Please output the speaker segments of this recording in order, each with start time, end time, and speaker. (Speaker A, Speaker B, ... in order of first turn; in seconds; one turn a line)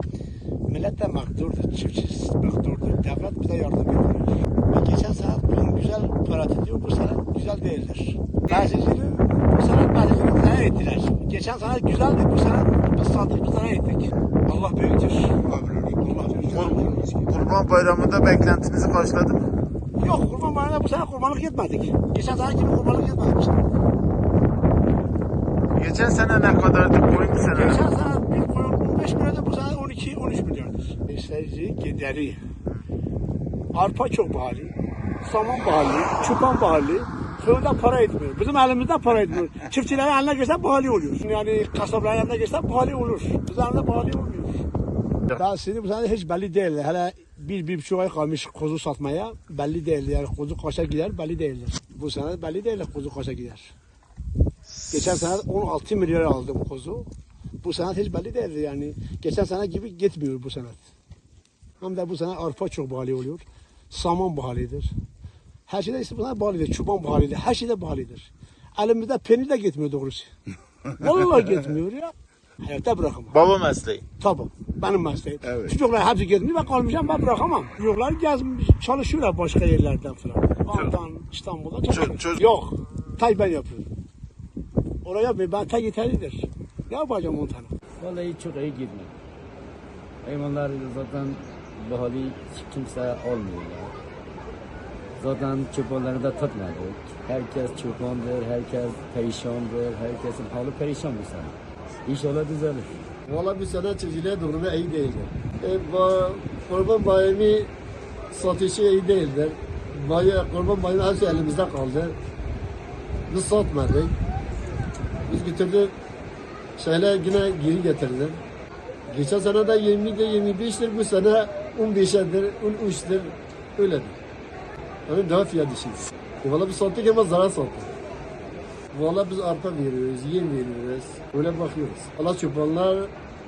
Speaker A: 0.7-17.1
Speaker B: 16.4-19.5
Speaker A: 20.0-23.6
Speaker B: 25.7-27.8
Speaker A: 27.1-32.4
Speaker A: 33.7-44.6
Speaker A: 45.3-53.7
Speaker A: 54.9-57.1
Speaker A: 57.6-60.8
Speaker A: 61.8-64.9
Speaker A: 65.7-70.3
Speaker A: 70.9-73.4
Speaker B: 73.3-74.0
Speaker A: 74.2-83.9
Speaker B: 81.9-82.4
Speaker A: 85.0-87.7
Speaker C: 88.0-89.1
Speaker C: 90.2-93.9
Speaker C: 95.2-103.0
Speaker D: 103.3-107.7
Speaker D: 108.3-112.2
Speaker D: 113.3-114.1
Speaker D: 115.3-115.9
Speaker D: 116.8-118.4
Speaker D: 119.1-124.2
Speaker D: 125.1-127.9
Speaker D: 128.9-133.1